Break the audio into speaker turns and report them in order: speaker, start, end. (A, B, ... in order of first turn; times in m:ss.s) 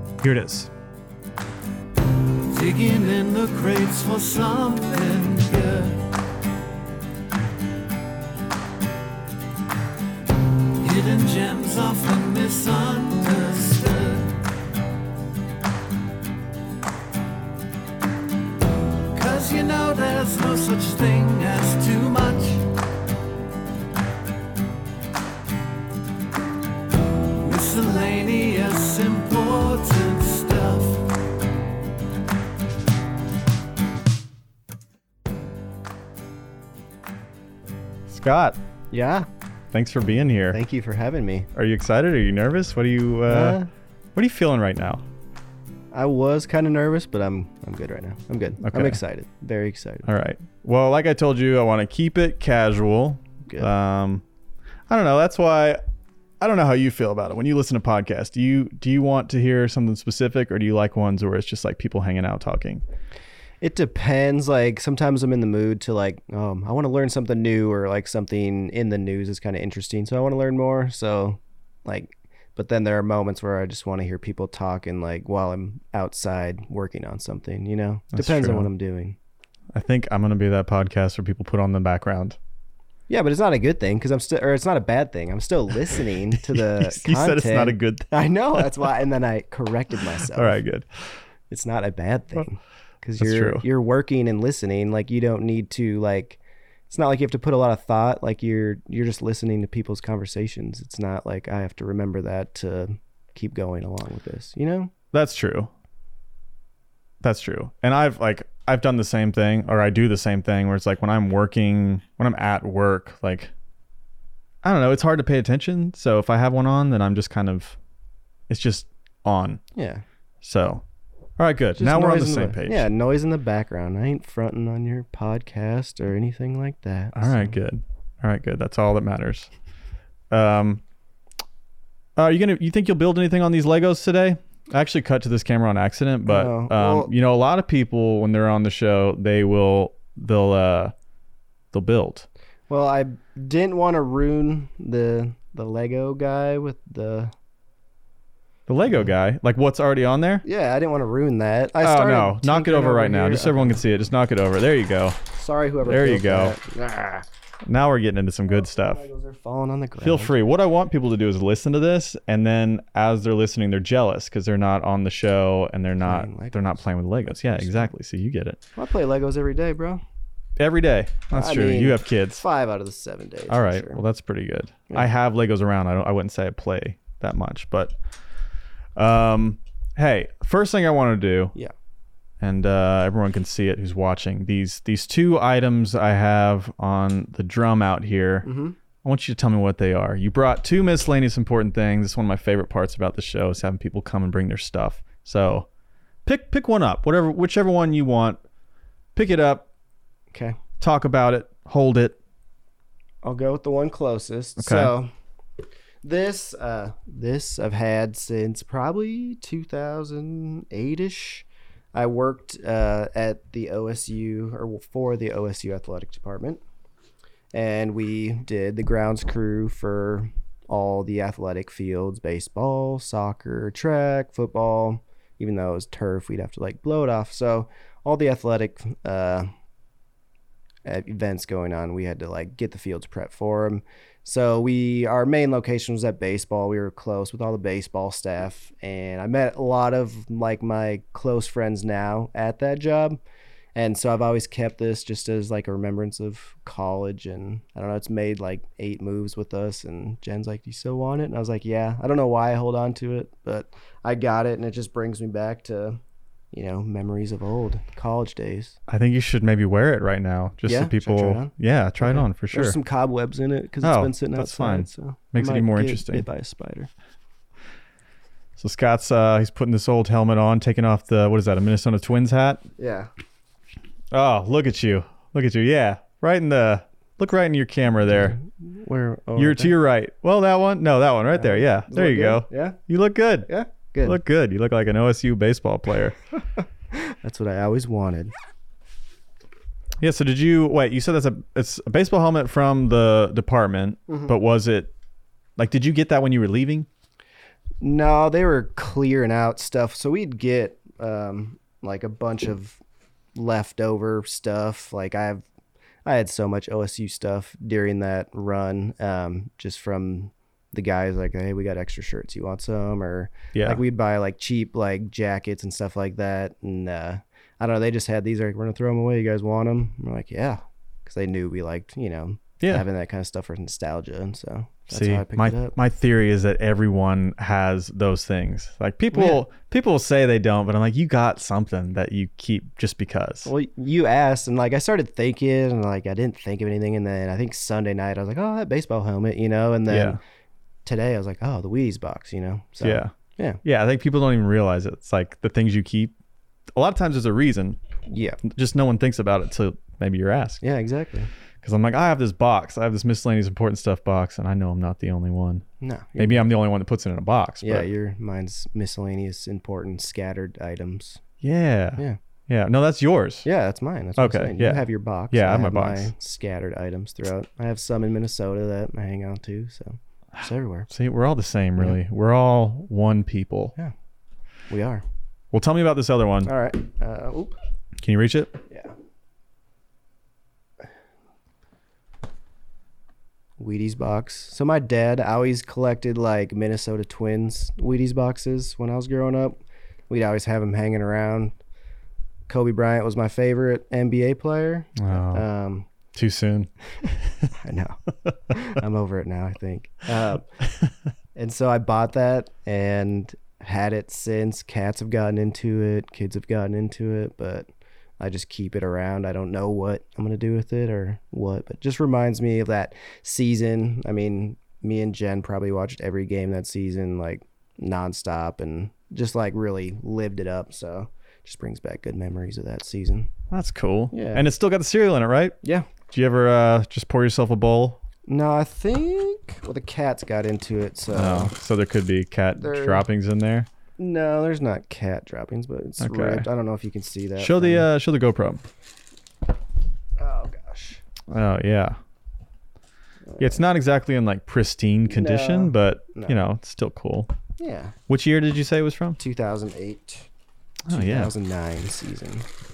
0:00.2-0:00.7 A
0:02.5-0:06.0 B
0:10.8-0:14.3 B
0:19.2-0:22.6 B
0:27.4-0:31.0 B
0:38.1-0:38.6 A
0:38.9-0:39.3 C
0:39.7-0:40.6 A
0:40.5-0:41.5 C
0:41.6-0:43.6 A
0:43.3-0:43.7 C
0:44.2-0:45.0 A
0:45.9-0:50.1 C
0:48.6-0:49.0 A
0:50.1-0:54.2 A
0:54.9-0:55.8 A
0:56.4-1:02.8 A
1:03.6-1:19.2 C
1:18.2-1:18.7 A
1:19.7-1:22.4 A
1:23.1-1:30.6 C
1:27.0-1:28.0 A
1:30.4-1:30.8 A
1:31.5-1:36.4 C
1:33.2-1:33.6 A
1:36.9-1:44.9 C
1:45.1-1:45.7 A
1:47.2-1:53.5 A
1:54.6-1:57.8 A
1:58.5-1:59.6 A
1:59.8-2:00.0 C
2:00.4-2:00.8 A
2:01.4-2:02.8 A
2:01.8-2:07.6 C
2:07.1-2:09.5 A
2:10.3-2:10.8 A
2:12.2-2:20.9 A
2:16.2-2:17.1 C
2:21.7-2:22.2 A
2:22.7-2:27.3 C
2:28.7-2:30.4 A
2:30.4-2:33.8 C
2:31.8-2:35.2 A
2:35.4-2:37.2 C
2:35.9-2:36.5 A
2:37.7-2:39.0 A
2:38.6-2:40.4 C
2:40.0-2:48.6 A
2:46.0-2:47.9 C
2:48.8-2:50.0 C
2:50.6-2:52.4 A
2:51.3-2:54.0 C
2:53.5-2:57.9 A
2:59.0-3:01.5 A
3:02.4-3:08.4 A
3:08.4-3:08.8 C
3:09.0-3:15.7 A
3:16.2-3:18.4 A
3:19.2-3:19.7 A
3:20.8-3:22.1 A
3:23.2-3:25.1 C
3:24.6-3:24.9 A
3:26.0-3:36.6 C
3:37.5-3:49.5 C
3:50.8-4:03.2 C
4:03.8-4:16.0 C
4:16.5-4:18.8 C
4:18.9-4:22.8 A
4:20.7-4:26.9 C
4:23.8-4:26.2 A
4:28.6-4:32.6 A
4:32.8-4:33.1 C
4:34.1-4:38.4 A
4:38.1-4:39.8 C
4:39.4-4:43.5 A
4:41.3-4:42.8 C
4:43.5-4:44.2 C
4:44.1-4:46.1 A
4:46.9-4:48.3 C
4:50.0-4:54.9 A
4:54.1-4:54.3 C
4:55.6-4:56.9 A
4:57.8-5:02.8 C
5:03.4-5:05.4 C
5:06.0-5:25.8 C
5:24.9-5:33.5 A
5:29.1-5:29.4 C
5:33.5-5:40.2 C
5:39.9-5:40.2 A
5:40.8-5:43.6 C
5:42.8-5:43.1 A
5:43.6-5:46.1 A
5:46.8-5:47.8 A
5:48.1-5:48.4 C
5:48.5-5:50.6 A
5:50.6-5:51.3 C
5:51.6-5:55.6 A
5:55.8-5:56.5 C
5:56.2-5:57.8 A
5:57.6-6:01.2 C
6:01.4-6:03.4 A
6:03.4-6:10.9 C
6:04.2-6:06.1 A
6:10.9-6:13.7 A
6:14.7-6:15.0 C
6:15.5-6:16.5 A
6:16.5-6:17.6 C
6:18.0-6:18.6 A
6:23.6-6:31.5 C
6:32.5-6:35.9 C
6:35.1-6:35.4 A
6:36.2-6:36.7 A
6:37.6-6:38.0 C
6:38.5-6:40.5 C
6:41.4-6:47.7 C
6:48.2-7:03.3 C
7:03.5-7:05.6 A
7:04.1-7:04.4 C
7:05.6-7:05.9 C
7:06.1-7:08.0 A
7:08.3-7:11.5 C
7:11.2-7:13.7 A
7:12.6-7:13.1 C
7:14.0-7:17.9 C
7:16.0-7:16.4 A
7:17.4-7:18.6 A
7:20.2-7:21.0 C
7:21.3-7:22.0 A
7:23.2-7:23.6 C
7:23.4-7:27.3 A
7:25.1-7:26.4 C
7:27.6-7:28.0 C
7:28.1-7:29.2 A
7:29.2-7:30.3 C
7:30.9-7:31.3 A
7:30.9-7:32.5 C